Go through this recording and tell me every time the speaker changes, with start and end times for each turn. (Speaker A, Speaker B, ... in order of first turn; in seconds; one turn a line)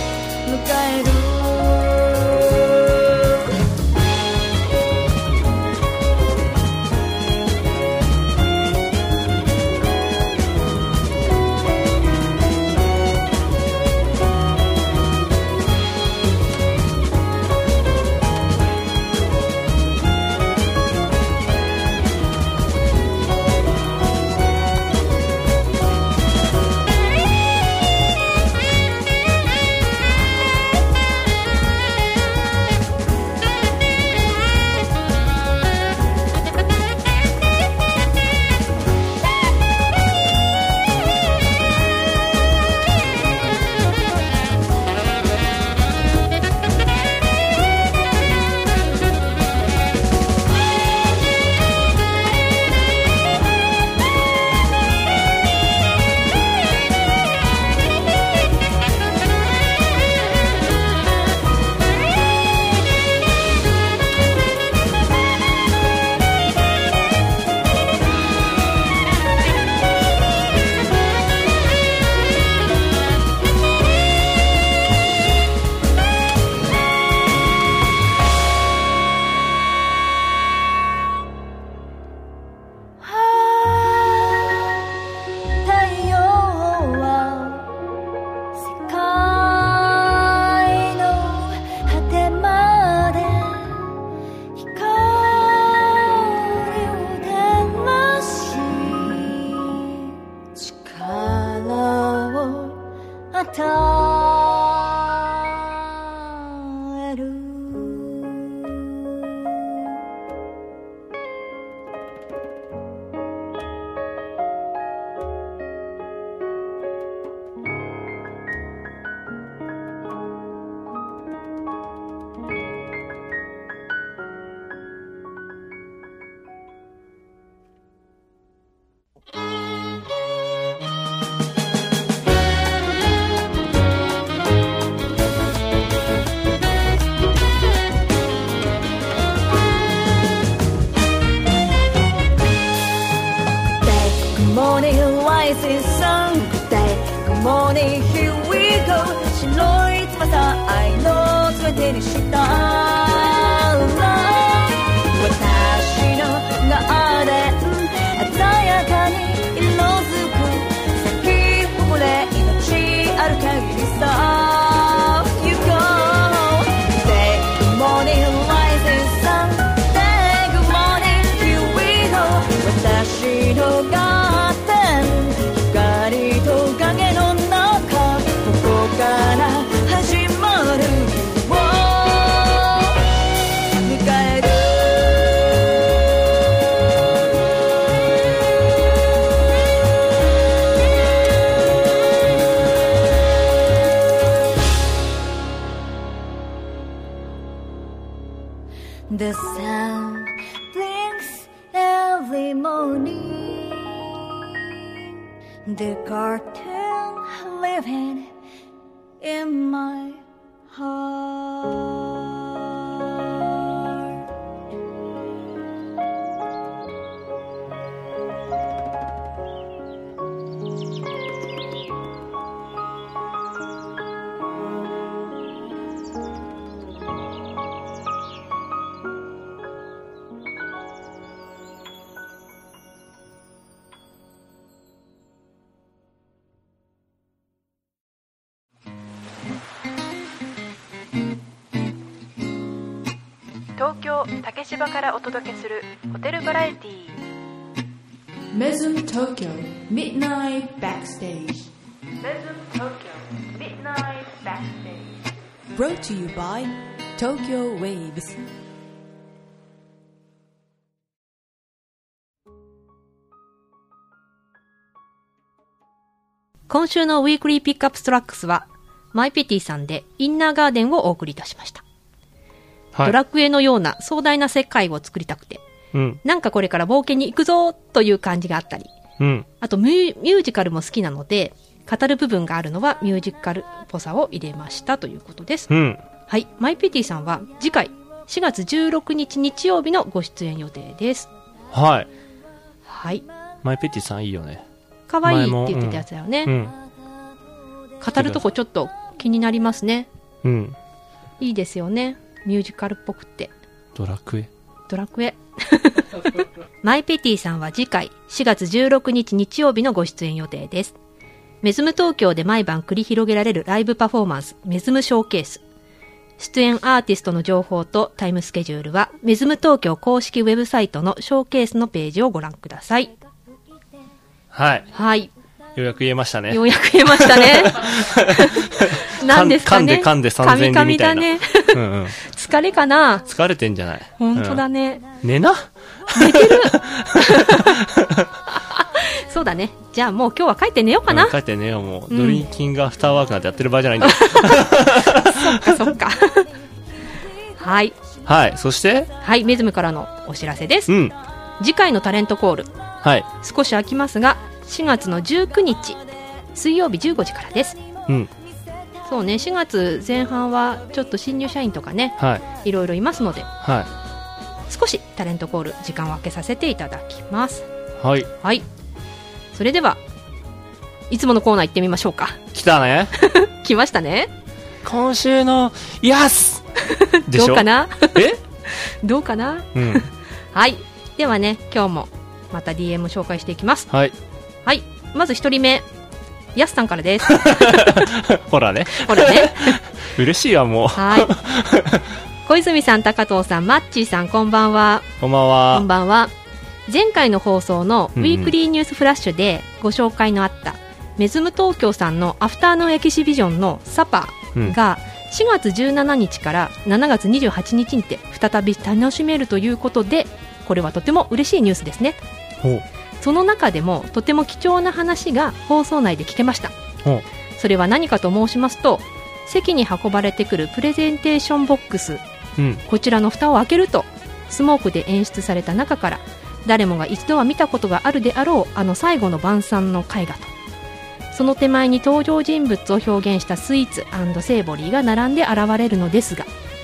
Speaker A: 0.4-3.4
Speaker A: 83.0-84.9
Speaker A: 85.6-87.7
Speaker A: 88.6-94.0
Speaker A: 94.6-109.7
Speaker A: 143.7-183.0
Speaker A: 183.8-185.5
Speaker A: 199.1-204.7
Speaker A: 205.7-208.3
Speaker A: 209.2-214.0
Speaker B: 243.8-247.1
Speaker B: 248.5-251.6
Speaker B: 252.2-255.1
Speaker B: 255.8-258.3
Speaker C: 266.7-271.8
Speaker C: 273.0-275.6
Speaker D: 275.9-276.2
Speaker C: 276.2-278.9
Speaker D: 279.2-279.5
Speaker C: 279.6-285.7
Speaker D: 285.7-286.0
Speaker C: 286.3-291.3
Speaker D: 291.7-292.1
Speaker C: 292.9-293.2
Speaker D: 293.6-294.6
Speaker C: 295.1-296.5
Speaker D: 295.2-296.7
Speaker C: 298.0-300.1
Speaker D: 300.4-300.8
Speaker C: 301.4-303.5
Speaker D: 303.9-304.5
Speaker C: 304.9-306.3
Speaker C: 306.8-311.0
Speaker C: 311.6-315.6
Speaker C: 316.4-323.1
Speaker D: 324.5-324.9
Speaker C: 324.9-325.3
Speaker D: 325.8-332.2
Speaker C: 326.5-333.3
Speaker D: 333.3-334.6
Speaker C: 334.2-335.1
Speaker D: 335.2-338.3
Speaker C: 336.1-337.8
Speaker C: 338.5-341.3
Speaker D: 341.1-345.8
Speaker C: 342.1-342.5
Speaker C: 344.0-346.5
Speaker C: 347.6-347.9
Speaker D: 348.3-349.1
Speaker C: 349.2-350.9
Speaker D: 350.9-351.1
Speaker C: 351.6-352.7
Speaker C: 353.4-356.0
Speaker C: 356.5-357.8
Speaker C: 359.1-363.5
Speaker D: 362.2-362.4
Speaker D: 363.6-363.9
Speaker C: 364.7-367.7
Speaker D: 368.0-368.3
Speaker C: 368.4-368.6
Speaker C: 369.5-370.0
Speaker C: 371.1-372.4
Speaker D: 372.5-373.1
Speaker C: 373.2-374.3
Speaker D: 374.8-376.6
Speaker C: 376.9-383.9
Speaker D: 377.3-378.4
Speaker D: 379.8-380.1
Speaker C: 384.7-385.9
Speaker C: 386.6-388.0
Speaker D: 387.3-392.1
Speaker C: 388.9-389.8
Speaker C: 390.9-391.3
Speaker C: 392.5-395.1
Speaker D: 395.2-395.9
Speaker C: 395.7-396.3
Speaker C: 396.9-412.2
Speaker D: 398.2-398.5
Speaker C: 413.2-416.7
Speaker C: 417.6-422.2
Speaker D: 422.6-422.8
Speaker C: 422.9-430.5
Speaker C: 431.3-436.5